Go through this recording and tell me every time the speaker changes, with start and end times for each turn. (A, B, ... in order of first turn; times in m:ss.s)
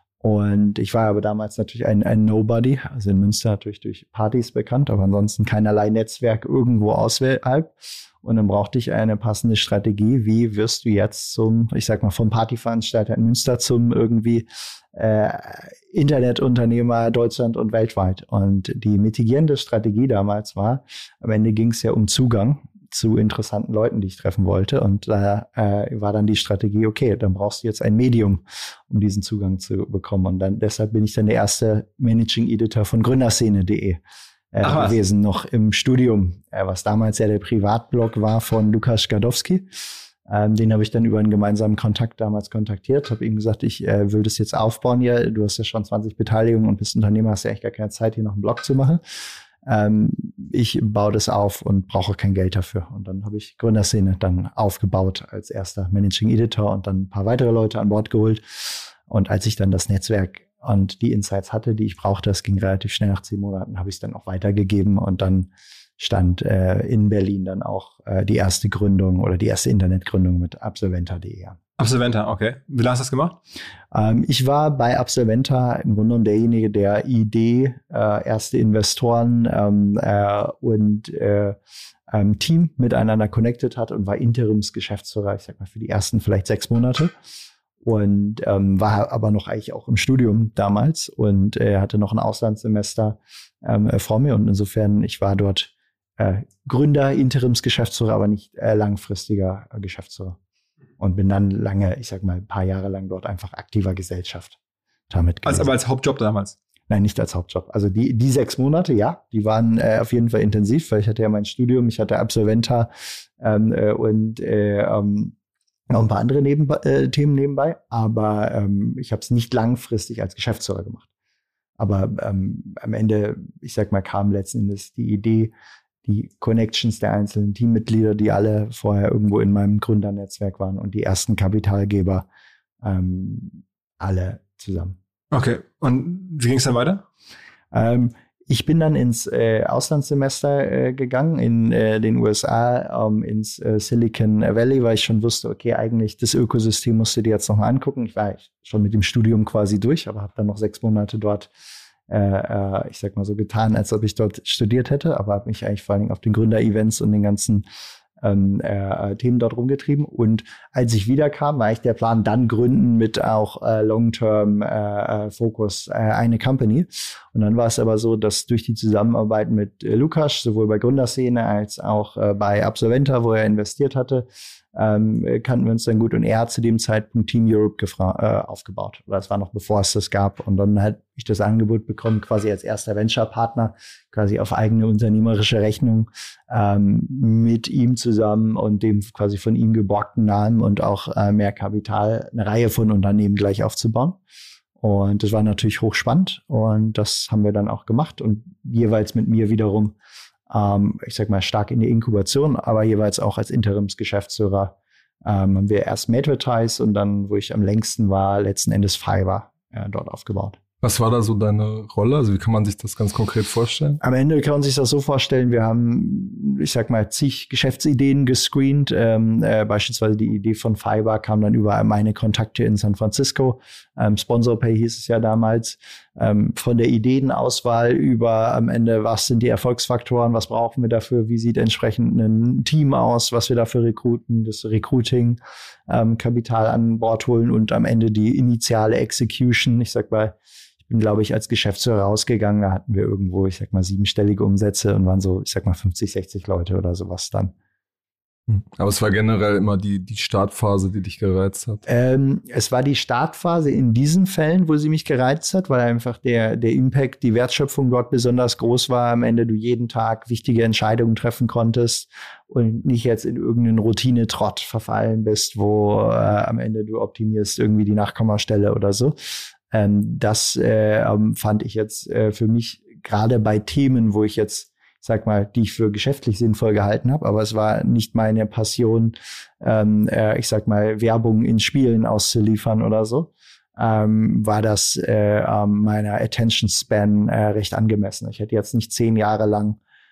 0:00.2-0:34.0 A
0:34.5-0:39.7 A
0:34.6-0:35.0 B
0:40.3-0:49.0 A
0:49.6-1:11.6 A
1:11.8-1:13.4 B
1:13.9-1:21.6 A
1:22.1-1:27.1 A
1:27.8-1:40.4 A
1:41.0-1:44.6 A
1:45.1-1:45.7 A
1:45.4-1:46.6 B
1:46.9-1:55.3 A
1:55.9-2:01.0 A
2:01.8-2:05.5 A
2:06.0-2:12.3 A
2:12.8-2:15.0 A
2:15.3-2:17.0 B
2:17.7-2:31.5 A
2:32.1-2:37.6 A
2:38.2-3:14.2 A
3:14.8-3:20.0 A
3:20.5-3:30.6 A
3:30.8-3:34.0 C
3:34.0-4:07.5 A
4:08.5-4:11.8 C
4:11.9-4:49.8 A